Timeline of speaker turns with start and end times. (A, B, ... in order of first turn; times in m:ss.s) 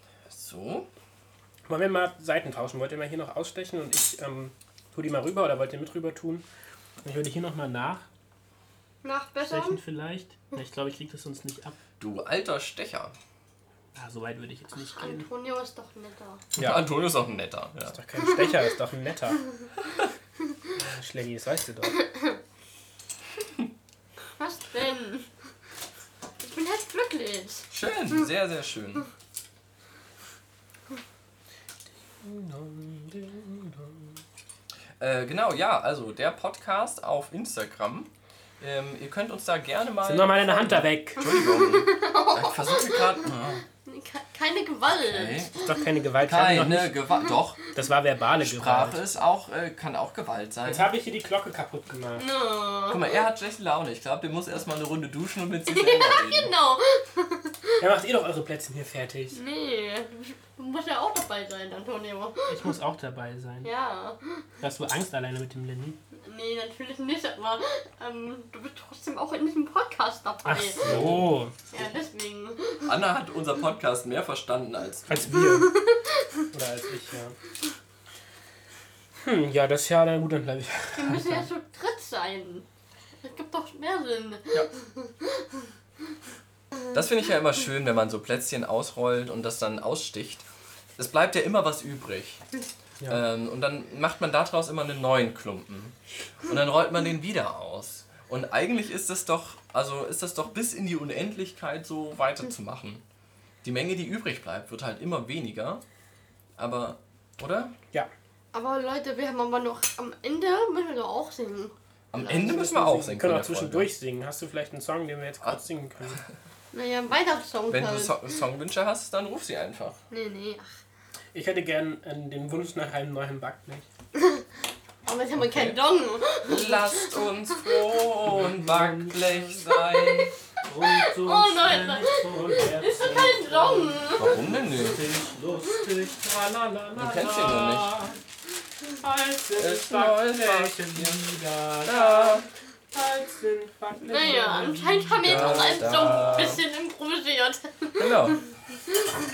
0:00.3-0:00.9 A
0:01.7-0:06.5 B
0:07.0-0:08.1 B
0:09.0-0:09.8 C
0:09.4-0:11.8 B
0:12.0-0:13.2 A
0:14.0-0:15.3 B
0:14.7-0:16.4 C
0:16.6-0:16.8 B
0:16.6-0:18.0 A
0:17.9-0:19.4 B
0:20.8-0:22.0 B
0:22.0-0:22.4 C
0:24.4-0:25.3 C
0:26.4-0:27.7 C
0:27.7-0:29.1 A
0:32.1-0:34.2 B
0:35.0-0:43.6 A
0:40.0-0:41.2 B
0:41.2-0:43.3 C
0:43.8-0:45.5 C
0:44.9-0:45.5 A
0:45.6-0:47.1 B
0:46.2-0:47.6 A
0:47.7-0:49.0 B
0:48.4-0:50.9 A
0:50.6-0:52.3 B
0:52.2-0:53.1 C
0:52.9-0:56.5 A
0:55.7-0:57.7 C
0:57.8-0:59.4 B
0:59.3-1:02.6 C
1:02.5-1:03.7 B
1:03.6-1:04.5 C
1:04.6-1:06.0 B
1:06.2-1:11.1 C
1:10.4-1:11.6 B
1:10.8-1:11.9 A
1:11.7-1:13.0 C
1:12.8-1:15.3 A
1:15.1-1:15.7 B
1:15.5-1:16.0 C
1:16.5-1:17.4 B
1:19.2-1:21.5 B
1:21.0-1:22.7 C
1:23.2-1:25.6 C
1:26.9-1:30.5 A
1:31.0-1:32.4 A
1:33.1-1:43.0 A
1:43.6-1:45.8 A
1:46.6-1:47.8 A
1:48.5-1:52.5 C
1:52.1-1:53.9 A
1:52.3-1:56.2 B
1:56.7-1:58.2 C
1:57.7-2:00.0 A
2:00.1-2:00.8 C
2:01.3-2:03.9 B
2:04.2-2:04.4 C
2:05.0-2:07.8 C
2:05.4-2:05.8 A
2:06.4-2:10.3 A
2:08.3-2:09.6 B
2:09.7-2:10.3 C
2:10.6-2:18.2 B
2:10.9-2:14.4 C
2:14.2-2:15.0 A
2:17.0-2:18.0 A
2:19.0-2:26.6 B
2:19.6-2:21.3 A
2:21.8-2:22.5 A
2:24.1-2:28.4 C
2:25.2-2:26.6 A
2:28.0-2:28.4 A